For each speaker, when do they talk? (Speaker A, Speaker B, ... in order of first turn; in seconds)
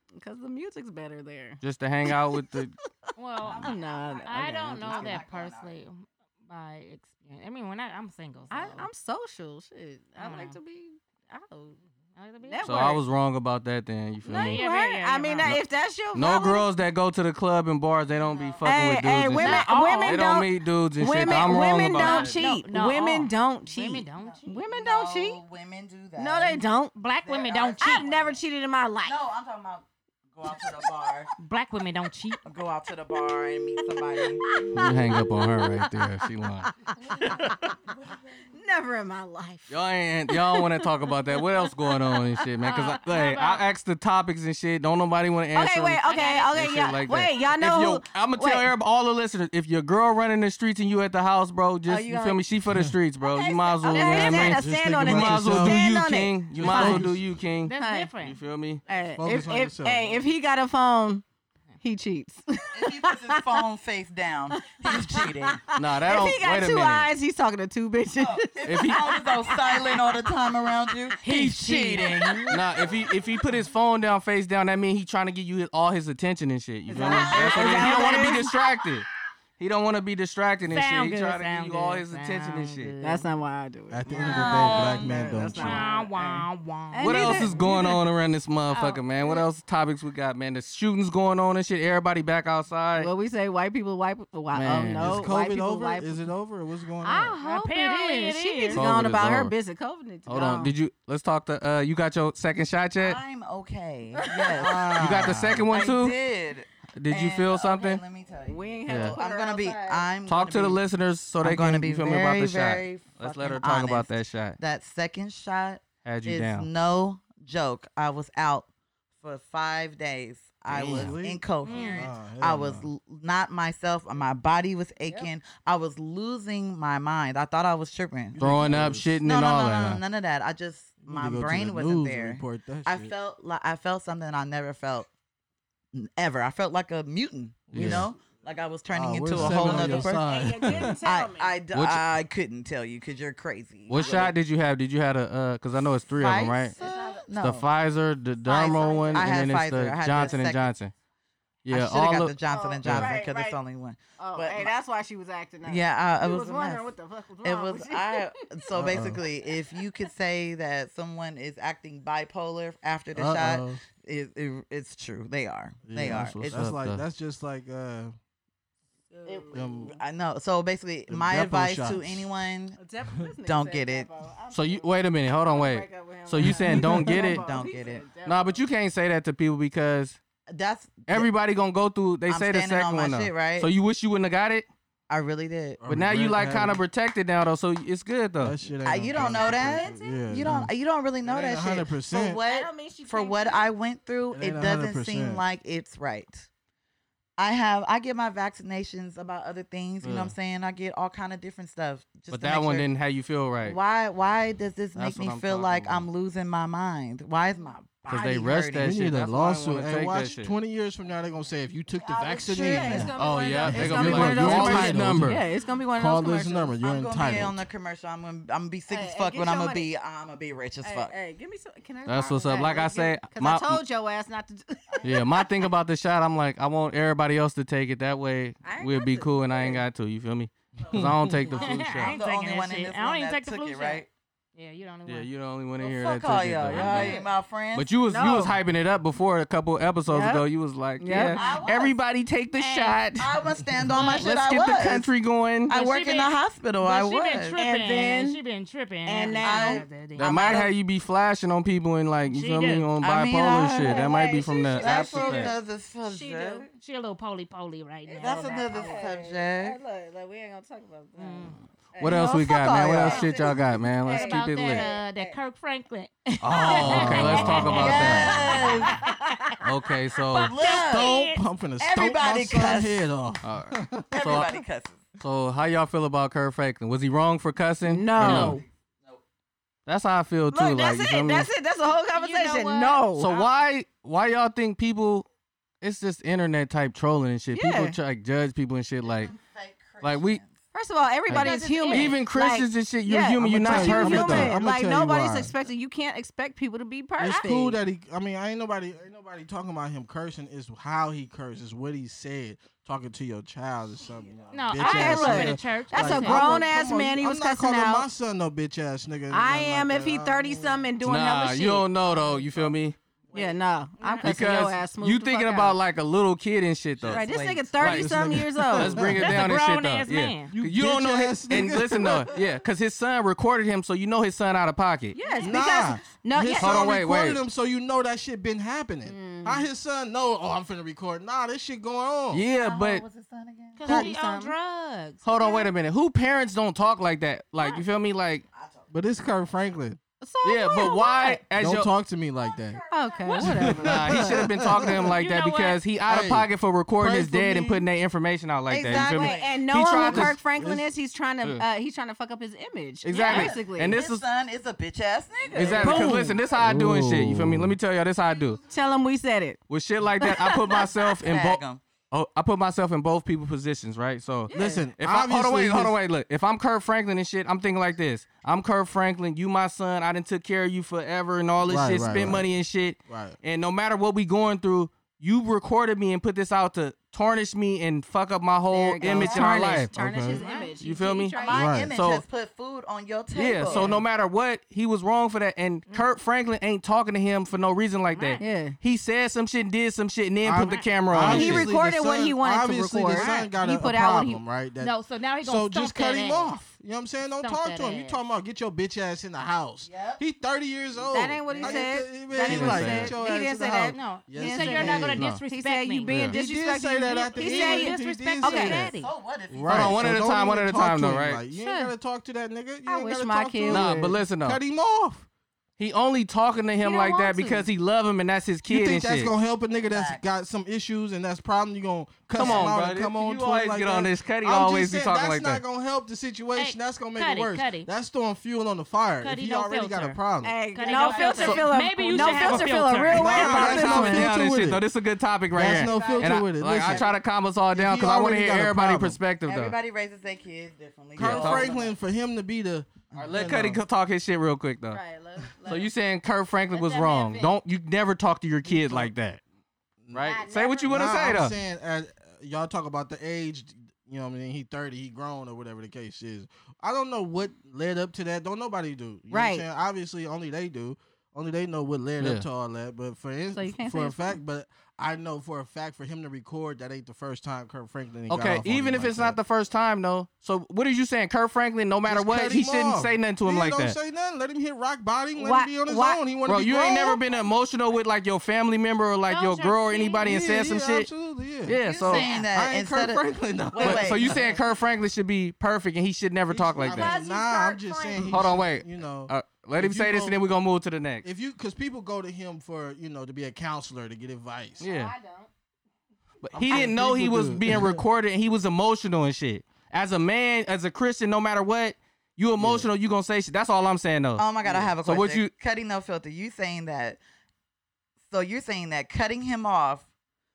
Speaker A: 0.2-3.1, 3.6-5.2, 8.5-11.8, 12.4-13.0, 14.2-16.7, 18.6-25.4, 26.2-27.0, 27.8-29.2, 34.2-36.0, 36.9-37.8, 38.5-42.5, 45.5-48.7, 51.9-52.4, 53.2-57.1, 57.8-58.1, 58.9-61.2, 61.8-63.5, 64.6-70.2, 71.1-72.9, 76.9-78.5, 83.0-88.0, 93.0-96.3, 97.0-100.8, 104.2-104.8, 108.5-110.1, 125.1-125.3, 139.5-141.5, 146.8-147.3, 148.5-149.5, 150.2-150.4, 152.4-153.6, 154.2-158.3, 159.0-159.8, 169.1-169.9, 172.8-178.6, 189.3-190.2, 192.5-193.7, 212.6-216.7, 218.9-219.9, 220.8-225.5, 228.6-229.8, 238.0-238.6, 240.1-240.4, 241.0-241.4, 247.6-248.4, 249.1-249.9, 253.8-256.7, 258.1-262.4, 263.0-265.4, 266.6-269.6, 277.9-278.6, 280.5-283.3, 287.5-288.0, 290.7-297.8, 304.8-308.1, 309.3-311.9, 313.3-315.8, 317.1-319.0, 325.1-326.9, 329.1-329.7, 333.9-334.5, 340.2-341.4, 342.9-344.3, 348.9-354.0, 355.5-356.4, 358.7-359.6, 360.2-360.9, 364.5-364.9, 378.7-381.8, 388.4-388.8, 391.2-394.4, 401.1-408.8, 411.5-411.9, 412.9-414.1, 416.8-417.7, 430.4-434.3, 435.9-436.2, 444.9-445.9, 446.7-447.5, 450.2-451.0, 459.3-459.6, 463.5-464.4, 475.4-476.2, 486.8-488.5, 494.8-495.5
Speaker B: 1.6-2.7, 12.6-14.6, 15.4-22.4, 34.7-36.7, 39.7-58.8, 65.7-67.1, 68.7-69.0, 72.5-79.0, 79.6-82.9, 87.0-93.1, 94.5-95.3, 98.7-99.5, 100.3-103.2, 105.0-106.2, 107.0-108.0, 108.9-109.2, 110.3-114.6, 116.0-116.7, 120.7-121.1, 128.4-130.0, 137.7-138.1, 139.4-139.8, 141.7-142.1, 143.9-146.7, 147.4-150.9, 151.7-152.3, 166.1-167.0, 174.5-177.4, 178.2-180.2, 181.1-184.7, 185.9-188.6, 200.0-200.3, 202.3-203.8, 204.9-206.1, 208.1-210.5, 213.1-215.4, 222.1-223.8, 225.0-232.2, 235.1-237.2, 237.7-243.3, 244.0-245.7, 250.2-255.5, 262.0-264.9, 266.4-268.5, 269.6-270.6, 273.4-274.5, 275.2-278.6, 279.9-281.5, 283.2-285.3, 285.8-289.3, 290.0-290.4, 291.3-294.6, 311.0-313.0, 314.2-317.2, 317.8-318.1, 318.6-325.2, 326.6-327.4, 332.3-333.0, 335.2-338.4, 340.4-341.9, 343.8-350.4, 353.0-354.2, 355.5-358.6, 359.7-379.9, 380.8-382.2, 383.3-391.7, 402.4-403.1, 406.1-406.4, 409.7-411.4, 413.7-414.6, 415.8-419.3, 422.4-425.6, 431.3-431.6, 433.2-439.8, 441.2-441.7, 443.2-445.0, 445.7-449.4, 450.1-451.6, 462.2-462.4, 468.3-474.0, 476.5-481.1, 481.6-482.3, 483.8-487.2, 488.3-491.2, 494.8-495.1, 496.4-505.5
Speaker C: 3.2-8.9, 10.2-10.6, 12.2-13.0, 14.3-15.6, 19.4-20.2, 22.0-24.6, 27.0-28.1, 31.4-32.4, 42.6-43.6, 46.1-46.5, 57.7-58.4, 71.2-72.5, 77.3-78.5, 80.6-83.3, 84.2-87.7, 88.7-89.5, 97.4-98.8, 121.6-122.1, 231.5-234.1, 234.6-235.3, 236.7-237.3, 241.3-241.7, 242.6-243.0, 243.9-244.3, 245.7-250.7, 252.3-252.9, 256.8-259.0, 261.2-261.6, 264.1-269.6, 270.3-271.4, 282.1-283.5, 291.3-292.2, 304.5-306.7, 314.0-314.3, 319.2-320.5, 333.8-335.7, 345.2-345.8, 380.3-380.7, 388.1-388.4, 390.6-390.9, 393.1-393.5, 394.8-396.6, 397.4-398.2, 403.9-406.2, 407.3-409.1, 426.6-427.9, 429.2-430.2, 430.7-433.7, 447.0-447.5, 479.3-480.6, 482.1-482.4
Speaker D: 3.4-5.7, 18.1-18.7, 24.2-26.6, 27.2-28.4, 29.0-31.3, 32.5-35.2, 37.1-38.5, 62.7-66.3, 68.1-73.3, 77.0-78.2, 84.2-84.8, 103.0-110.8, 111.4-118.7, 119.2-135.1, 135.9-144.3, 146.2-147.7, 148.5-150.8, 151.7-154.7, 155.7-166.7, 169.2-172.8, 173.4-174.1, 177.1-178.1, 180.5-181.3, 182.3-183.7, 185.1-185.8, 188.8-196.5, 197.4-202.9, 203.6-209.0, 212.0-213.7, 216.8-221.1, 224.9-225.2, 231.5-234.1, 235.8-238.3, 241.2-242.0, 243.2-245.1, 245.7-247.6, 249.4-250.7, 253.0-256.7, 258.2-259.8, 262.0-263.9, 266.9-269.0, 270.3-271.2, 271.8-273.1, 274.1-275.1, 278.1-279.2, 289.0-290.6, 312.1-312.7, 313.3-313.6, 317.0-317.8, 332.5-334.1, 338.5-338.9, 342.4-344.2, 348.7-349.7, 353.2-356.7, 358.2-358.7, 361.1-361.9, 379.1-379.5, 381.3-384.0, 399.9-400.2, 401.5-401.9, 408.8-410.2, 419.8-420.2, 422.4-422.8, 430.8-431.4, 435.8-437.1, 439.4-442.0, 443.1-443.5, 481.7-484.5, 504.4-507.2, 508.3-510.1
Speaker E: 54.1-55.8, 56.5-57.4, 59.2-60.2, 83.9-85.9, 95.0-97.3, 104.6-105.7, 120.7-122.9, 128.3-129.2, 131.0-133.1, 137.7-138.1, 138.9-141.0, 158.8-159.2, 163.1-163.8, 165.8-168.2, 169.5-170.0, 171.1-172.3, 176.4-177.2, 185.8-186.8, 188.4-190.7, 191.2-192.4, 194.3-195.4, 208.8-215.4, 216.0-217.6, 230.9-231.4, 270.7-274.3, 293.4-295.5, 297.2-310.8, 317.8-319.4, 320.5-322.3, 325.4-332.4, 338.9-340.0, 341.6-345.2, 346.1-347.8, 350.1-350.9, 355.6-357.8, 364.5-366.0, 371.6-372.5, 373.1-373.4, 379.9-380.4, 381.5-381.9, 390.4-405.2, 406.3-408.9, 409.5-415.3, 418.7-430.6, 432.2-434.9, 435.5-437.1, 437.7-439.2, 441.2-443.8, 448.6-449.1, 450.0-469.4, 472.1-477.2, 480.2-481.8, 482.3-484.6, 486.5-490.4, 491.2-494.9, 496.5-498.0, 502.6-502.9, 504.6-504.9